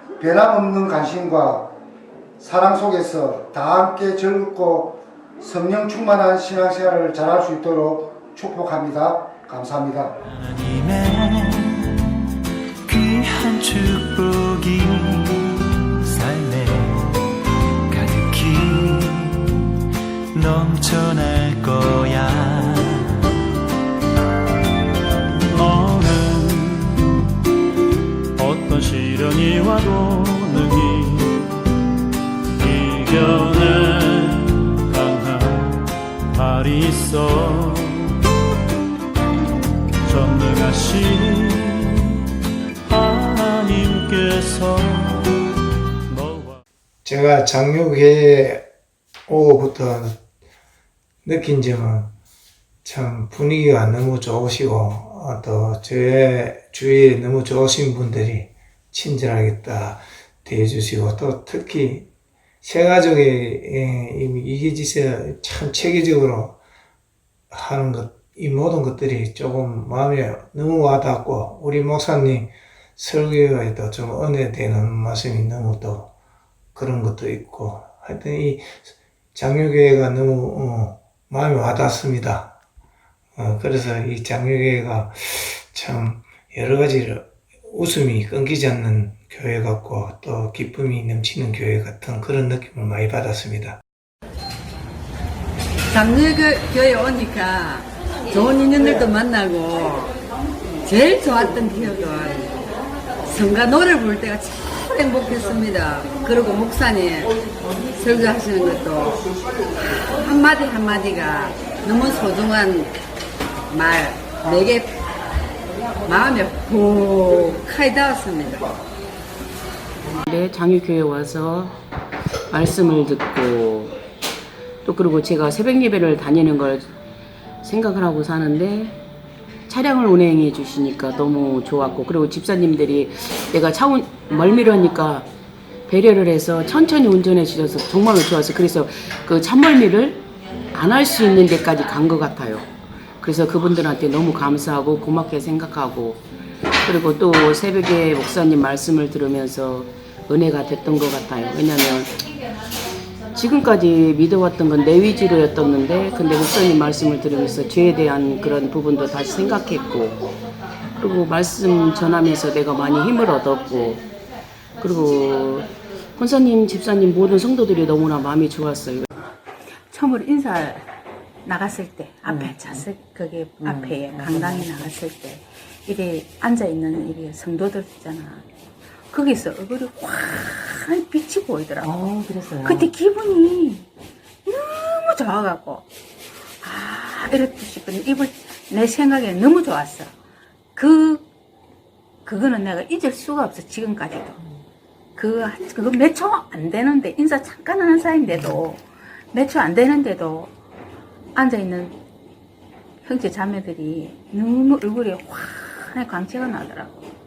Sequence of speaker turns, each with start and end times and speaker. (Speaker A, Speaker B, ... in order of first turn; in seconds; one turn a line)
Speaker A: 0.2-1.7
Speaker A: 2.4-10.2
Speaker B: 10.3-12.2
Speaker B: 12.8-17.1
Speaker B: 17.9-19.7
Speaker B: 20.3-23.2
Speaker B: 25.5-27.2
Speaker B: 28.4-31.5
Speaker B: 32.6-38.2
Speaker B: 40.0-42.2
Speaker B: 42.9-45.4
Speaker B: 46.1-46.6
Speaker C: 47.0-48.6
Speaker C: 49.3-50.2
Speaker C: 51.2-52.1
Speaker C: 52.8-62.1
Speaker C: 62.6-66.6
Speaker C: 67.5-76.1
Speaker C: 76.7-82.5
Speaker C: 83.3-93.8
Speaker D: 95.9-100.1
Speaker D: 100.8-102.5
Speaker D: 103.2-107.3
Speaker D: 108.0-109.2
Speaker D: 110.0-112.9
Speaker D: 113.7-114.8
Speaker D: 116.1-118.6
Speaker E: 120.2-121.8
Speaker E: 122.5-124.0
Speaker E: 124.8-126.9
Speaker E: 127.6-129.0
Speaker E: 129.7-135.3
Speaker E: 135.9-142.7
Speaker E: 143.2-146.2
Speaker E: 146.8-152.2
Speaker E: 153.3-160.2
Speaker E: 161.0-164.0
Speaker E: 164.8-169.1
Speaker F: 169.9-170.8
Speaker F: 171.4-178.4
Speaker G: 172.3-172.8
Speaker G: 173.6-174.8
Speaker F: 179.1-182.0
Speaker G: 181.8-182.9
Speaker F: 182.6-183.8
Speaker F: 184.4-185.8
Speaker F: 186.6-190.1
Speaker F: 190.7-191.2
Speaker F: 192.2-194.4
Speaker F: 195.2-200.5
Speaker F: 201.3-201.9
Speaker F: 203.0-207.1